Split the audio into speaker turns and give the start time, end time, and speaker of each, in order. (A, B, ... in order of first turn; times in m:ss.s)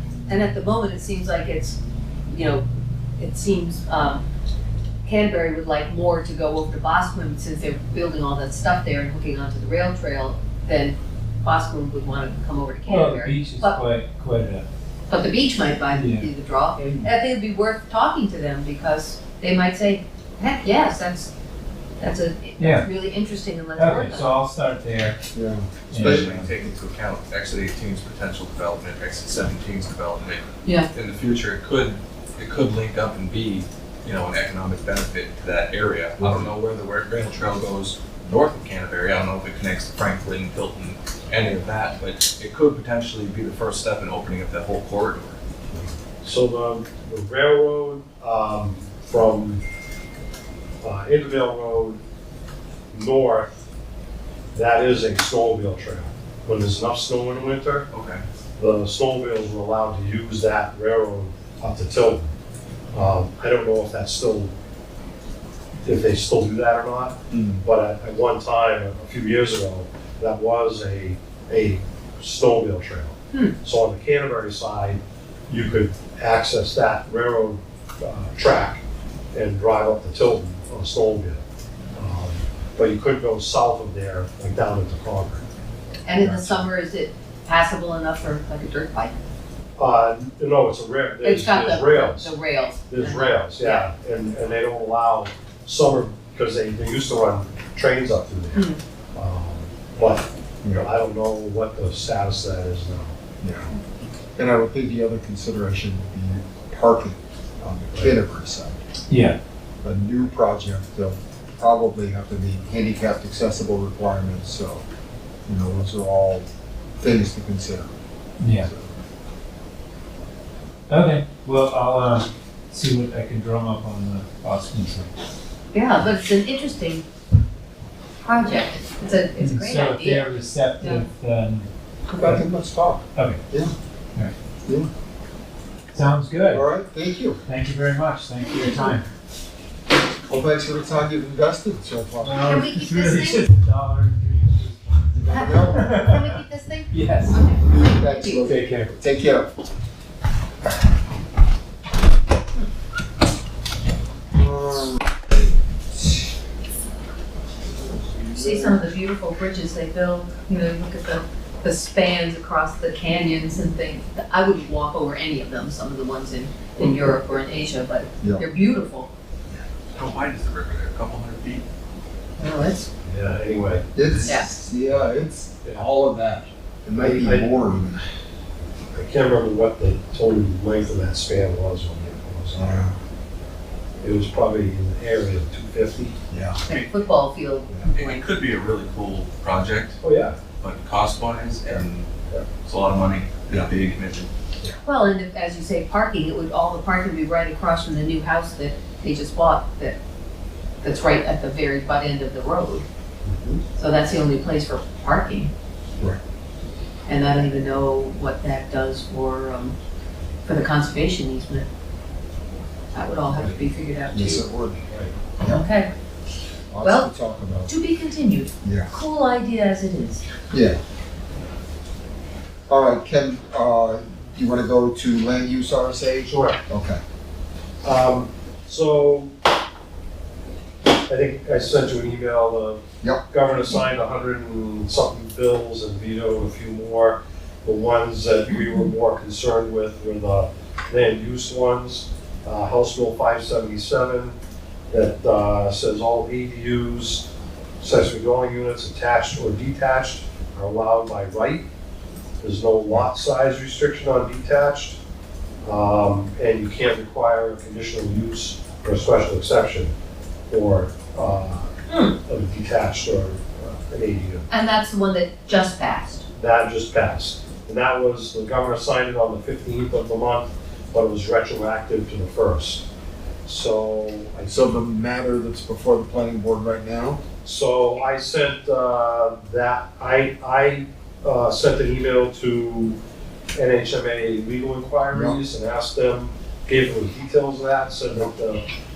0:00.3-0:01.8 A
0:02.3-0:02.6 A
0:03.2-0:04.2 A
0:05.0-0:13.8 A
0:12.8-0:14.6 B
0:15.1-0:21.3 A
0:15.9-0:16.3 B
0:22.0-0:24.3 A
0:22.6-0:22.9 B
0:23.8-0:25.2 B
0:25.3-0:26.3 C
0:25.9-0:26.5 B
0:25.9-0:45.4 D
0:36.2-0:36.5 C
0:46.2-0:49.6 E
0:50.8-0:52.0 E
0:52.9-0:53.6 E
0:54.5-0:57.9 E
0:57.9-0:58.2 D
0:58.6-1:02.3 E
1:02.9-1:04.5 E
1:05.8-1:18.8 E
1:07.3-1:07.6 C
1:19.3-1:21.4 E
1:22.0-1:25.4 E
1:26.0-1:29.1 A
1:26.2-1:26.6 C
1:29.8-1:32.3 E
1:31.2-1:33.9 A
1:32.8-1:43.1 E
1:38.5-1:38.8 A
1:43.4-1:43.7 C
1:44.4-1:48.8 C
1:47.9-1:48.2 E
1:49.1-1:49.4 B
1:49.8-1:54.8 C
1:55.5-1:56.5 C
1:57.0-1:57.9 C
1:58.4-1:58.7 B
1:58.6-1:58.9 C
2:00.9-2:05.1 B
2:05.7-2:07.0 A
2:08.2-2:11.0 A
2:09.4-2:11.7 B
2:12.2-2:13.7 C
2:12.2-2:12.4 B
2:15.9-2:16.6 B
2:16.5-2:17.4 C
2:17.4-2:19.0 B
2:18.4-2:18.9 A
2:20.3-2:22.6 C
2:22.2-2:27.4 B
2:22.4-2:23.5 A
2:25.1-2:26.0 C
2:25.3-2:28.4 A
2:27.6-2:29.5 C
2:28.4-2:28.9 B
2:34.3-2:35.0 C
2:37.8-2:38.8 C
2:38.3-2:49.1 A
2:49.9-2:51.6 D
2:52.4-2:52.9 A
2:53.0-2:53.9 E
2:53.9-2:58.0 C
2:57.0-2:57.8 E
2:58.9-3:02.9 E
3:02.5-3:02.9 C
3:04.0-3:06.2 E
3:06.3-3:06.6 C
3:06.7-3:08.3 A
3:07.9-3:10.0 D
3:10.0-3:10.4 E
3:10.6-3:12.1 D
3:12.6-3:14.3 D
3:14.8-3:20.0 A
3:20.8-3:22.8 A
3:23.3-3:23.6 E
3:23.8-3:25.5 A
3:27.1-3:29.8 A
3:30.4-3:31.7 A
3:32.9-3:34.4 A
3:34.1-3:35.6 C
3:35.4-3:35.9 A
3:36.7-3:37.7 C
3:36.8-3:37.1 A
3:37.6-3:40.2 A
3:38.6-3:38.9 C
3:40.5-3:40.8 C
3:42.7-3:47.0 C
3:46.3-3:46.6 E
3:47.8-3:49.3 E
3:51.1-4:04.3 E
4:04.9-4:07.3 E
4:07.8-4:11.6 E
4:12.4-4:15.0 E
4:15.6-4:19.9 E
4:20.5-4:24.5 E
4:24.5-4:26.2 A
4:26.3-4:32.8 E
4:33.4-4:34.7 E
4:34.4-4:37.2 C
4:37.4-4:43.0 E
4:43.5-4:48.6 E
4:45.1-4:45.4 C